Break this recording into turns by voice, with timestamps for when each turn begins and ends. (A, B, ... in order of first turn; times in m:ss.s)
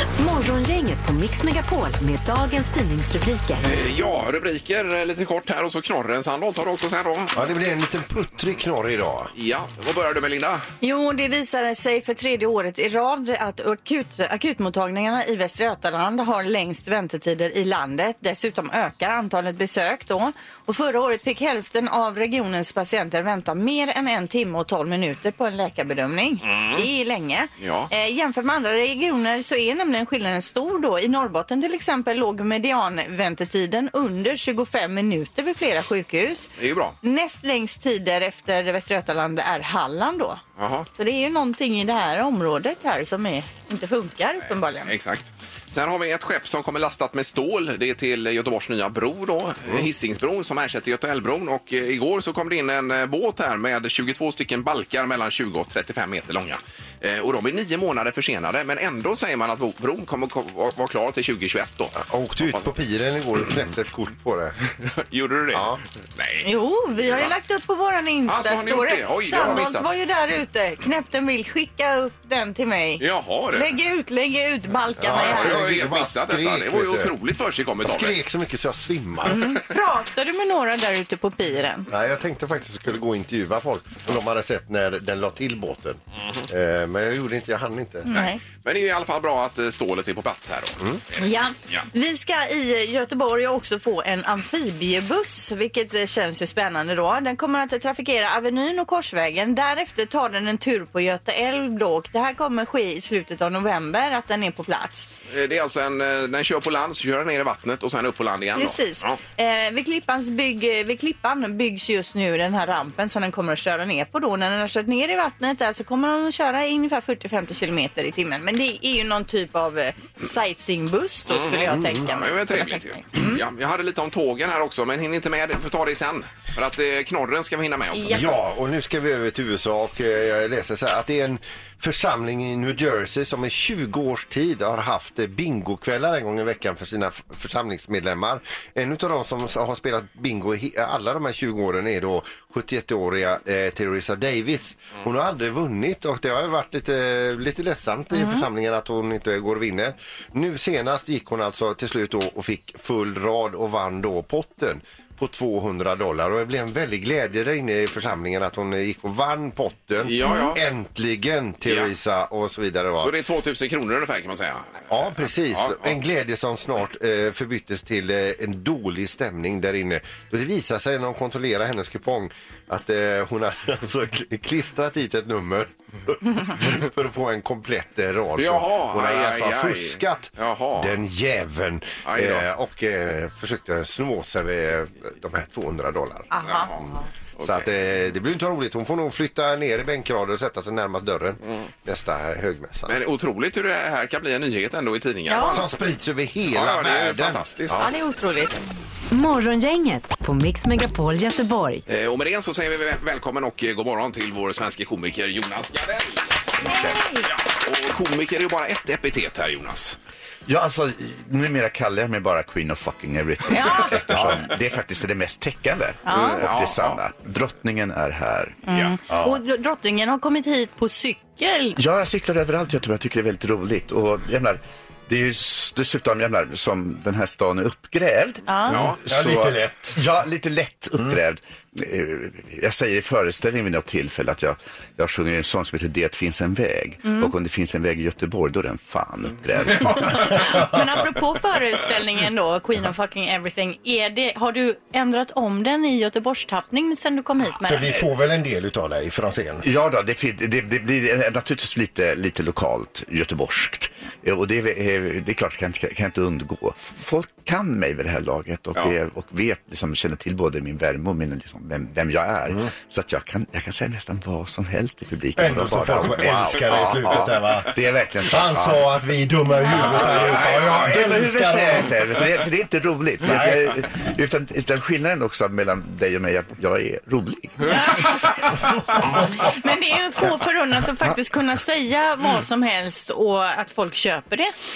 0:00.2-0:03.6 A
0:03.6-0:07.4 B
0:07.4-0:09.3 C
0:09.4-0:10.7 B
0:10.8-0:36.5 D
0:26.4-0:26.8 B
0:27.6-0:27.9 B
0:36.6-0:37.0 B
0:37.0-0:40.4 D
0:40.6-0:40.9 B
0:41.0-0:44.9 D
0:44.8-1:02.7 B
1:02.0-1:04.6 C
1:04.8-1:06.5 B
1:05.5-1:05.8 C
1:06.4-1:15.6 D
1:08.3-1:09.9 B
1:13.0-1:13.7 B
1:15.0-1:17.1 C
1:15.1-1:18.2 B
1:17.8-1:19.5 C
1:19.2-1:21.9 D
1:21.9-1:28.1 C
1:28.1-1:28.4 D
1:28.1-1:31.9 B
1:31.2-1:45.1 D
1:45.3-1:49.2 B
1:48.6-2:03.4 D
2:01.3-2:08.4 B
2:01.7-2:02.0 C
2:07.9-2:08.2 D
2:08.1-2:43.1 C
2:28.1-2:28.4 D
2:40.0-2:40.6 B
2:41.6-2:41.9 B
2:43.0-2:46.0 B
2:44.9-3:06.8 C
2:58.4-3:01.0 B
3:02.0-3:02.5 B
3:06.3-3:07.0 D
3:06.4-3:06.8 B
3:07.4-3:07.7 B
3:07.4-3:13.0 C
3:12.9-3:15.8 B
3:15.3-3:15.6 D
3:15.4-3:17.9 C
3:16.5-3:17.8 B
3:17.8-3:18.6 D
3:19.1-3:21.8 A
3:21.9-3:30.0 B
3:26.6-3:27.3 D
3:30.5-3:38.6 E
3:33.5-3:34.1 D
3:34.1-3:34.4 C
3:36.1-3:36.4 D
3:36.1-3:37.0 B
3:38.7-3:41.8 D
3:41.8-4:00.4 E
3:48.5-3:48.8 D
3:48.7-3:49.0 B
3:49.1-3:50.0 C
3:57.0-3:57.3 D
4:00.0-4:08.0 D
4:07.6-4:09.7 C
4:09.6-4:28.9 E
4:25.4-4:31.9 C
4:29.6-4:38.0 E
4:30.0-4:30.9 B
4:33.2-4:33.7 C
4:37.7-4:38.4 D
4:39.0-4:44.5 D